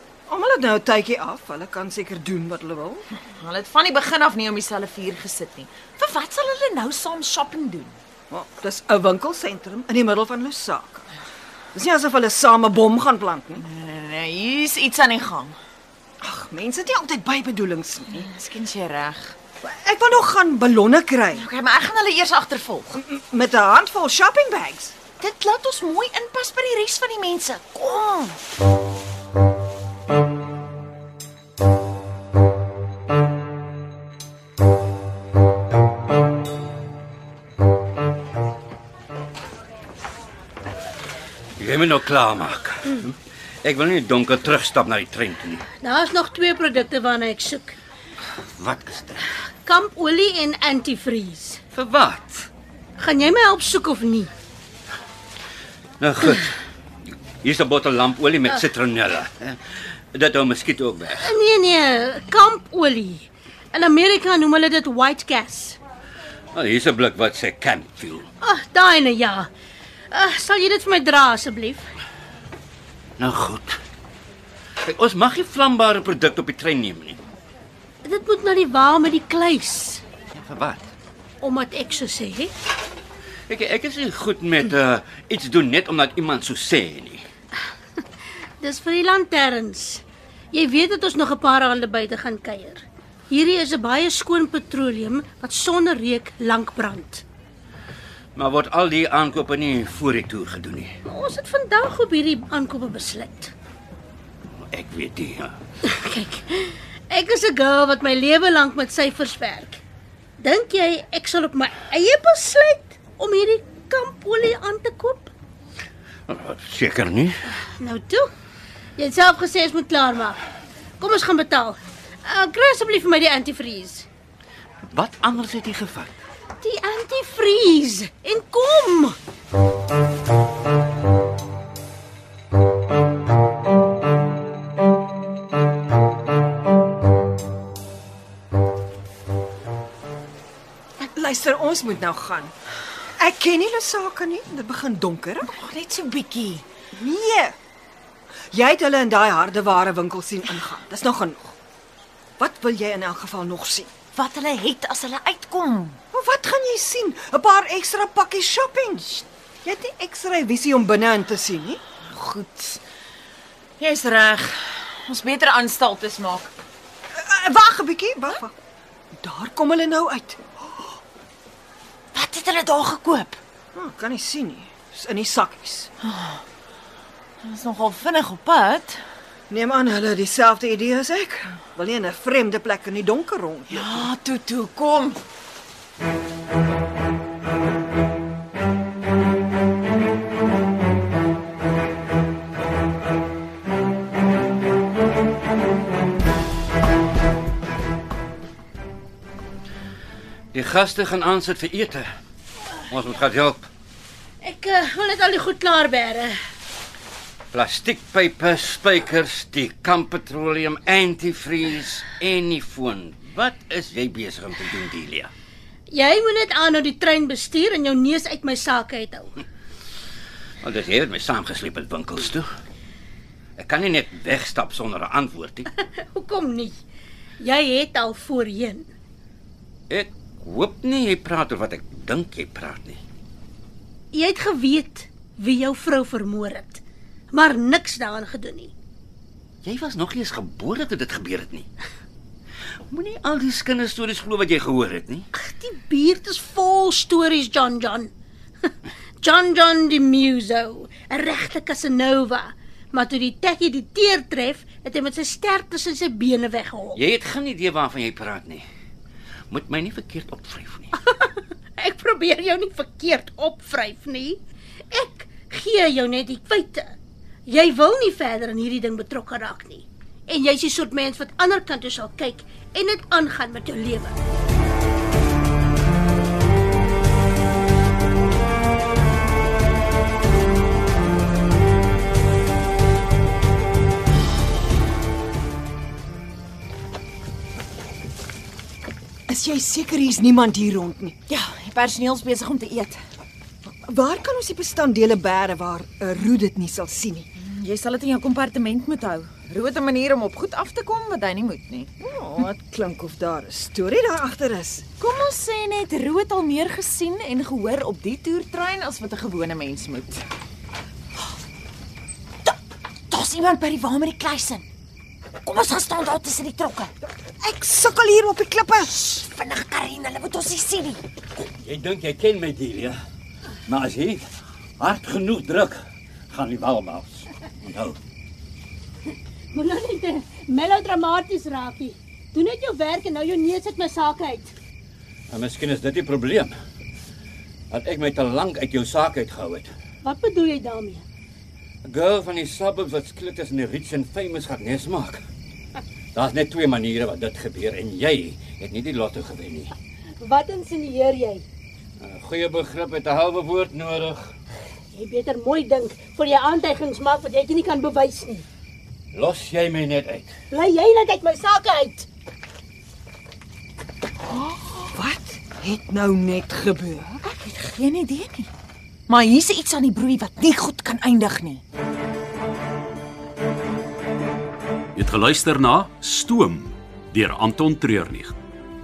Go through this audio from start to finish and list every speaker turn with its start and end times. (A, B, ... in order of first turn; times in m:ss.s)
0:00.3-0:03.0 A
0:03.3-0:08.0 B
0:08.3-0:11.1 A
0:11.7-0:13.6 A
0:13.6-0:15.6 B
0:16.2-0:18.3 A
0:18.1-0:19.3 B
0:19.6-0:21.5 A
0:21.3-0:23.0 B
0:22.9-0:25.0 A
0:25.2-0:28.4 B
0:41.6-0:45.6 C
0:45.8-0:47.8 D
0:48.3-0:49.3 C
0:49.6-0:51.6 D
0:51.7-0:52.5 C
0:53.0-0:54.3 D
0:56.0-0:56.5 C
0:57.4-1:01.3 C
1:01.2-1:05.8 D
1:06.5-1:08.3 C
1:08.4-1:09.5 D
1:10.1-1:11.9 D
1:13.2-1:13.8 C
1:14.8-1:17.2 C
1:18.0-1:20.0 D
1:20.3-1:20.9 C
1:21.4-1:22.5 D
1:23.5-1:27.3 C
1:28.6-1:37.2 D
1:38.3-1:40.9 C
1:41.0-1:43.5 D
1:44.7-1:45.6 C
1:45.8-1:49.8 D
1:50.4-1:55.3 D
1:56.3-1:57.4 C
1:57.8-1:58.3 D
1:59.0-2:00.4 D
2:01.0-2:04.1 D
2:04.8-2:06.2 C
2:06.6-2:09.2 D
2:21.0-2:22.5 A
2:23.2-2:25.5 A
2:25.4-2:26.6 B
2:26.9-2:27.6 A
2:28.5-2:31.5 A
2:32.4-2:33.9 A
2:34.2-2:36.0 B
2:36.1-2:41.8 A
2:42.1-2:42.8 B
2:43.8-2:46.5 B
2:47.2-2:48.5 A
2:49.2-2:50.4 A
2:52.1-2:53.4 B
2:53.7-2:55.9 A
2:56.0-2:56.4 B
2:57.4-2:59.0 B
2:59.5-3:04.1 A
3:03.7-3:05.2 B
3:20.5-3:22.1 C
3:22.9-3:23.7 C
3:24.4-3:26.4 D
3:27.5-3:35.3 C
3:35.9-3:39.3 D
3:40.6-3:42.5 C
3:43.6-3:45.7 C
3:45.8-3:46.8 D
3:47.4-3:48.9 D
3:49.9-3:53.0 C
3:54.1-3:58.7 D
3:59.6-4:01.7 C
4:02.9-4:05.3 C
4:05.3-4:08.1 D
4:09.2-4:17.0 D
4:16.9-4:18.7 C
4:19.5-4:20.9 C
4:21.0-4:24.4 D
4:24.9-4:26.9 D
4:27.5-4:34.2 D
4:49.3-4:51.2 A
4:51.3-4:53.0 B
4:53.7-4:57.3 A
4:57.4-5:01.9 B
5:02.0-5:04.9 A
5:05.0-5:10.2 B
5:13.1-5:14.6 B
5:15.4-5:16.9 B
5:17.4-5:19.0 A
5:19.0-5:21.0 B
5:21.3-5:23.0 C
5:23.7-5:24.3 C
5:24.8-5:28.0 C
5:29.5-5:34.5 D
5:35.3-5:36.5 C
5:37.7-5:39.7 C
5:40.0-5:41.0 D
5:41.8-5:45.2 C
5:46.1-5:49.7 C
5:50.2-5:51.4 D
5:52.0-5:54.3 C
5:54.9-5:58.4 D
5:59.1-6:00.3 C
6:00.5-6:02.1 D
6:04.9-6:07.2 A
6:07.2-6:08.5 B
6:09.1-6:11.6 B
6:14.9-6:18.3 E